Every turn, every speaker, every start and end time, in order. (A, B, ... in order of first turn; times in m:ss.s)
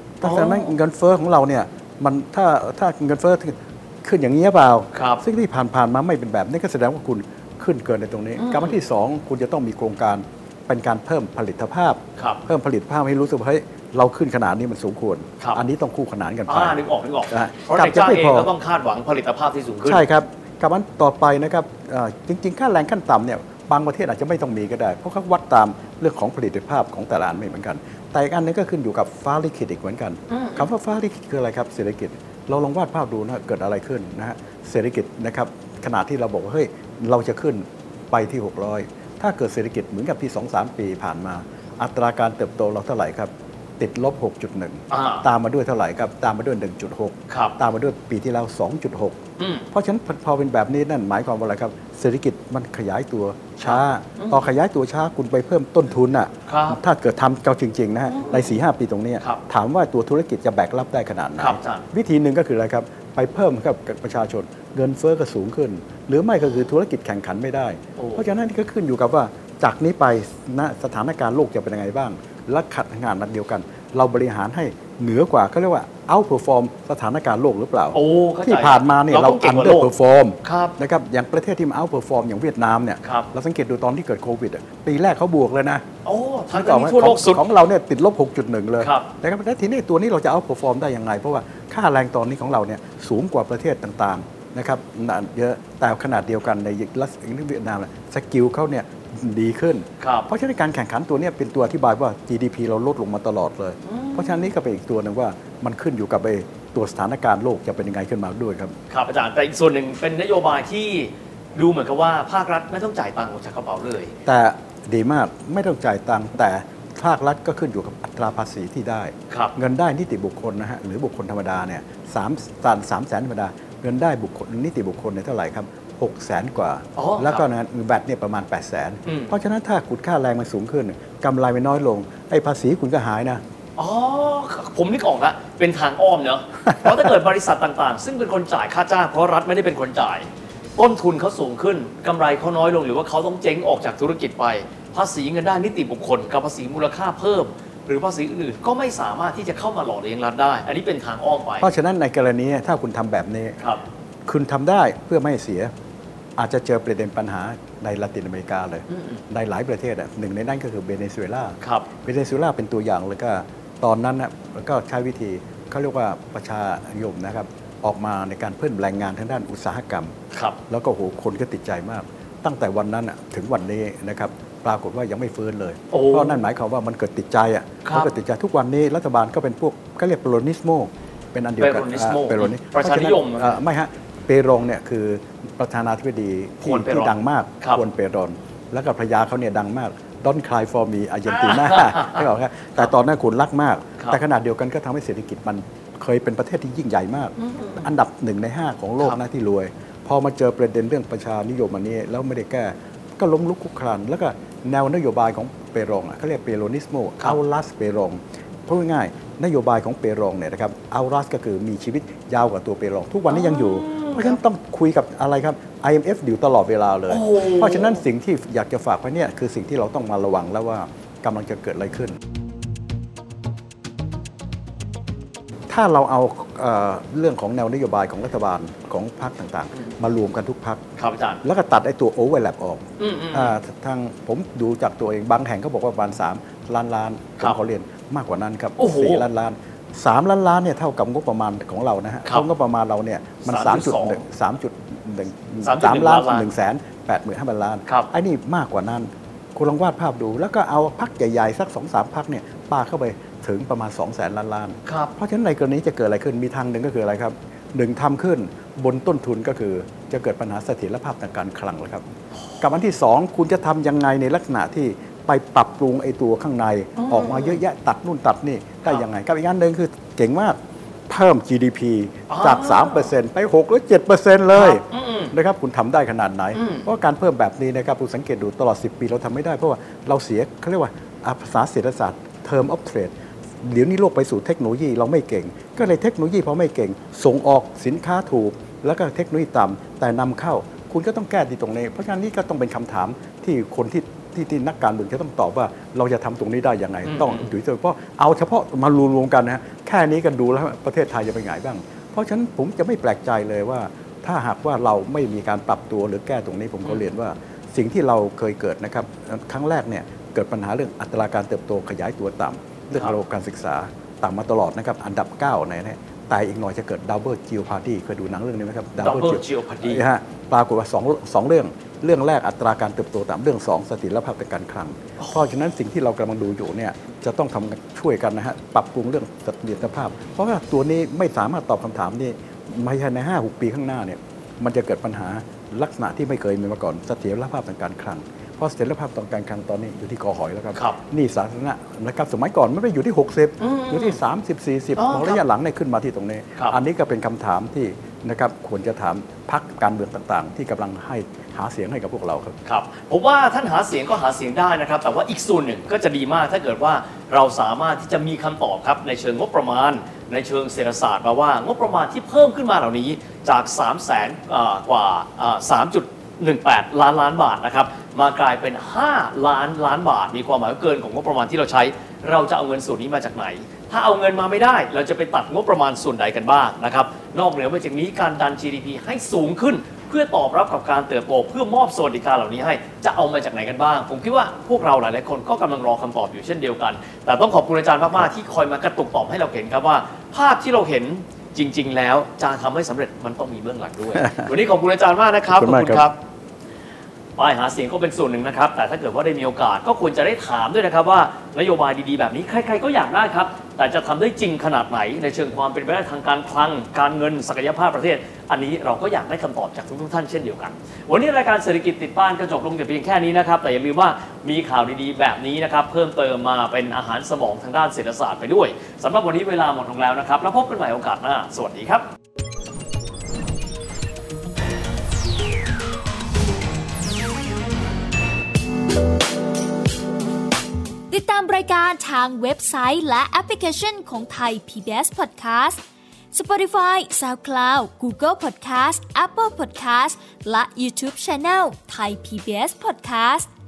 0:00.2-0:18.5 A
0:00.2-0:00.7 B
0:04.9-0:05.2 B
0:08.4-0:08.8 B
0:16.5-0:20.1 B
0:19.8-0:49.2 A
0:30.3-0:30.7 B
0:44.9-0:45.3 B
0:47.3-0:47.6 B
0:49.4-0:49.7 B
0:49.7-1:25.8 A
0:53.6-0:54.4 B
0:56.5-0:56.8 B
0:58.1-0:58.5 B
1:01.4-1:01.9 B
1:08.0-1:08.2 B
1:17.9-1:19.9 B
1:20.4-1:20.8 B
1:23.0-1:23.3 B
1:26.0-1:27.4 B
1:26.5-1:48.8 A
1:28.8-1:29.1 B
1:40.0-1:40.3 B
1:43.8-1:44.5 B
1:48.9-1:54.1 B
1:54.3-2:13.4 A
1:59.3-1:59.6 B
2:07.0-2:07.4 B
2:09.1-2:09.3 B
2:13.8-2:31.7 B
2:31.6-2:33.6 A
2:34.3-2:35.7 A
2:36.4-2:50.1 A
2:38.9-2:39.2 B
2:41.6-2:41.9 B
2:50.3-2:50.6 B
2:50.7-3:42.2 A
2:55.9-2:56.4 B
2:57.8-2:58.1 B
3:01.6-3:03.6 B
3:06.6-3:07.8 B
3:11.3-3:12.2 B
3:17.4-3:17.9 B
3:33.3-3:34.4 B
3:37.1-3:38.0 B
3:45.7-3:50.8 A
3:51.0-3:51.4 B
3:51.4-4:22.0 A
3:53.0-3:53.6 B
3:58.8-3:59.3 B
4:03.4-4:04.2 B
4:05.6-4:06.5 B
4:14.9-4:15.1 B
4:22.6-4:30.6 A
4:27.0-4:27.6 B
4:31.1-5:52.6 A
4:32.3-4:33.1 B
4:34.5-4:35.3 B
4:36.5-4:36.9 B
4:57.1-4:57.5 B
5:19.0-5:20.0 B
5:43.6-5:44.2 B
5:45.0-5:45.4 B
5:52.6-6:36.2 B
6:34.2-6:34.5 A
6:35.6-6:36.1 A
6:37.4-7:02.1 B
7:11.1-7:15.8 C
7:16.3-7:23.5 C